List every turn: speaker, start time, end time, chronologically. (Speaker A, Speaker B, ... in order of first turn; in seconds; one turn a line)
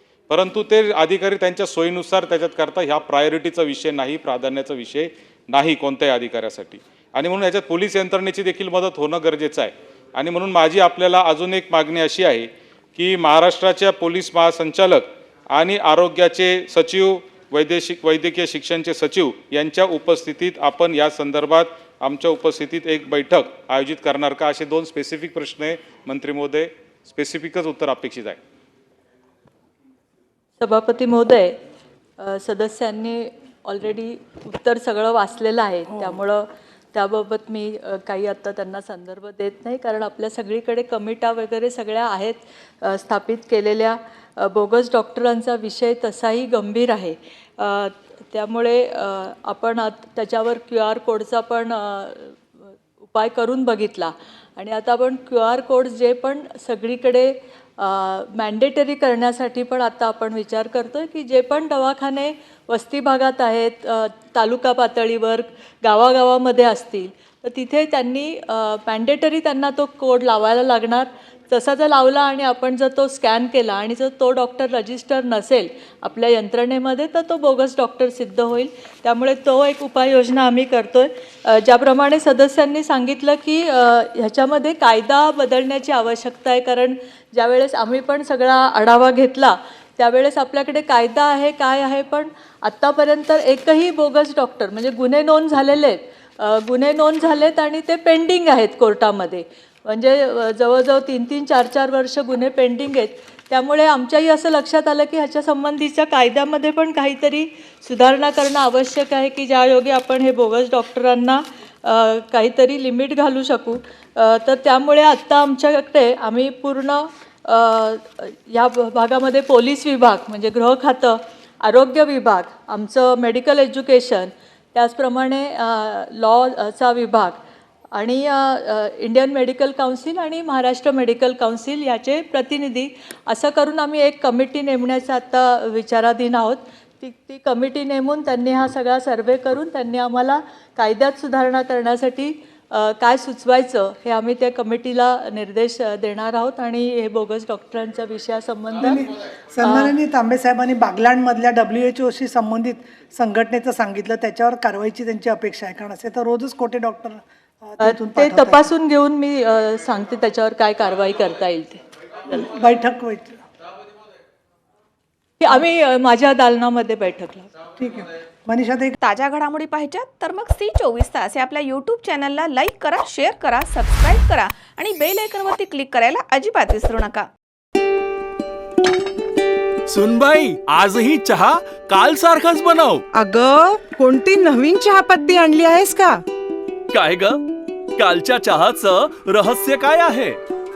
Speaker A: 0.3-28.4
Speaker B: 30.6-31.6
Speaker B: 32.2-52.4
Speaker B: 53.0-127.4
Speaker B: 127.9-149.1
Speaker C: 148.8-158.7
Speaker B: 149.6-149.9
Speaker B: 157.8-161.8
Speaker C: 162.3-163.4
Speaker B: 165.4-167.5
Speaker C: 167.8-168.9
Speaker D: 169.0-177.3
Speaker E: 179.9-183.1
Speaker F: 183.1-186.2
Speaker E: 186.9-187.4
Speaker E: 187.9-190.4